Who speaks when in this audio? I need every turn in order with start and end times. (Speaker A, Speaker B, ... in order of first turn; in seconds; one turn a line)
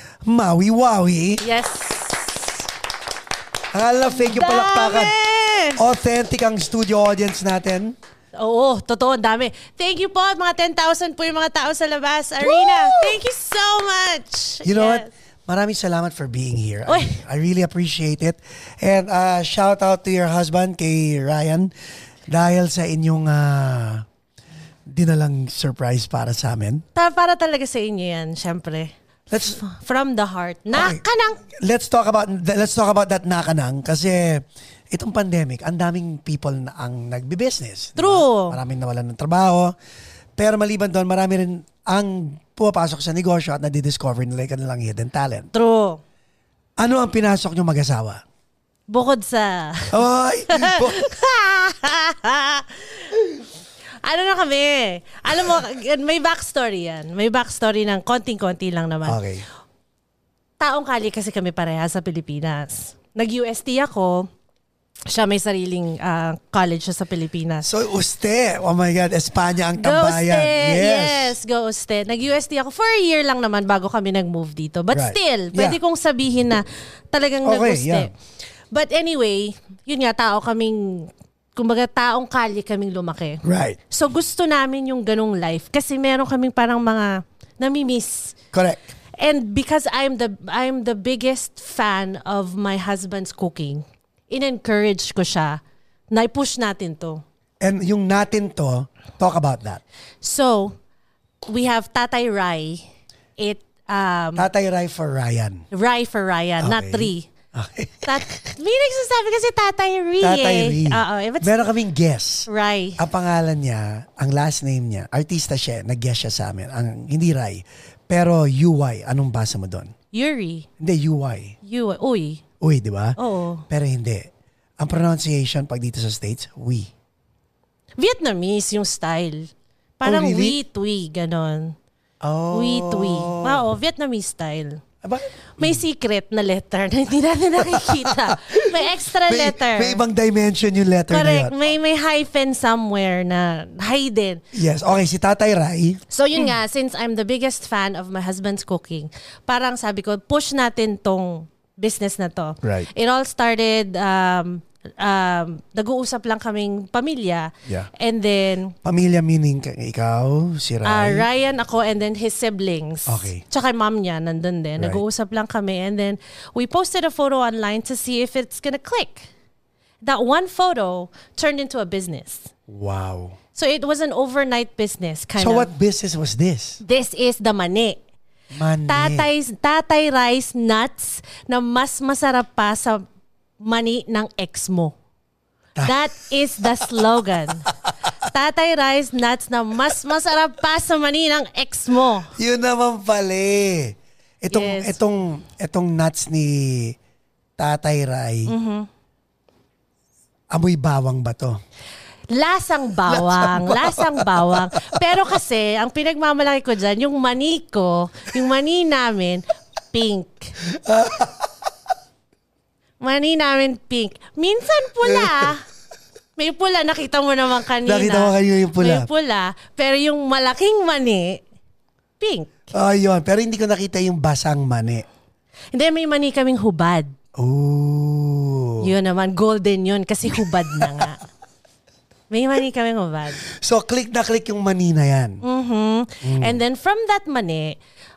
Speaker A: 0.2-1.4
Speaker B: 1.4-2.6
Speaker A: 3.7-5.1
Speaker B: 4.1-5.8
Speaker A: 5.8-8.0
Speaker B: 8.3-15.1
Speaker A: 12.4-13.2
Speaker A: 14.6-21.7
Speaker B: 16.9-17.2
Speaker A: 22.3-24.1
Speaker A: 24.9-26.8
Speaker B: 26.9-28.9
Speaker A: 29.3-29.6
Speaker B: 29.4-31.4
Speaker A: 30.7-39.7
Speaker B: 38.0-38.6
Speaker A: 40.4-45.5
Speaker B: 45.5-46.0
Speaker A: 46.8-48.2
Speaker B: 48.9-53.2
Speaker A: 49.9-51.1
Speaker B: 54.0-59.2
Speaker A: 59.0-59.4
Speaker B: 60.6-64.3
Speaker B: 65.1-67.7
Speaker A: 67.6-71.3
Speaker B: 69.8-78.1
Speaker A: 74.9-75.8
Speaker A: 77.4-78.1
Speaker B: 78.7-88.3
Speaker A: 83.4-83.8
Speaker A: 88.5-88.8
Speaker B: 89.2-97.2
Speaker A: 97.6-99.8
Speaker B: 100.2-100.7
Speaker B: 101.5-102.8
Speaker B: 103.4-104.5
Speaker A: 104.3-105.7
Speaker B: 105.7-107.3
Speaker A: 106.6-108.4
Speaker B: 108.0-111.7
Speaker A: 110.2-119.9
Speaker B: 112.5-113.0
Speaker B: 120.1-120.7
Speaker A: 120.8-121.6
Speaker B: 121.6-122.4
Speaker A: 122.6-123.2
Speaker B: 123.2-123.7
Speaker A: 123.7-126.9
Speaker B: 128.0-131.8
Speaker A: 130.0-130.6
Speaker A: 132.2-133.7
Speaker B: 132.5-134.8
Speaker A: 135.0-135.8
Speaker B: 135.6-140.0
Speaker A: 137.6-141.5
Speaker B: 141.1-144.4
Speaker A: 144.5-146.0
Speaker B: 146.1-158.8
Speaker A: 152.6-152.9
Speaker A: 158.8-161.3
Speaker B: 160.8-169.3
Speaker A: 163.1-163.4
Speaker B: 170.0-172.5
Speaker A: 172.7-173.4
Speaker B: 173.5-175.7
Speaker A: 175.4-176.8
Speaker B: 176.8-178.0
Speaker A: 178.5-179.3
Speaker B: 178.9-183.1
Speaker B: 183.6-184.9
Speaker B: 185.8-187.7
Speaker A: 186.6-187.0
Speaker A: 187.7-188.1
Speaker B: 188.2-192.3
Speaker A: 192.3-197.0
Speaker B: 194.5-195.0
Speaker A: 197.6-198.5
Speaker B: 198.5-198.9
Speaker A: 200.5-201.6
Speaker B: 202.3-210.5
Speaker A: 203.1-205.1
Speaker A: 210.6-211.5
Speaker B: 213.0-215.6
Speaker A: 215.0-215.5
Speaker B: 216.4-221.4
Speaker A: 217.8-219.1
Speaker B: 222.2-222.7
Speaker A: 222.7-225.0
Speaker B: 225.7-227.1
Speaker A: 227.3-228.9
Speaker B: 228.8-231.2
Speaker A: 230.4-231.1
Speaker B: 232.3-233.4
Speaker A: 233.4-235.4
Speaker B: 235.4-237.8
Speaker A: 236.2-236.6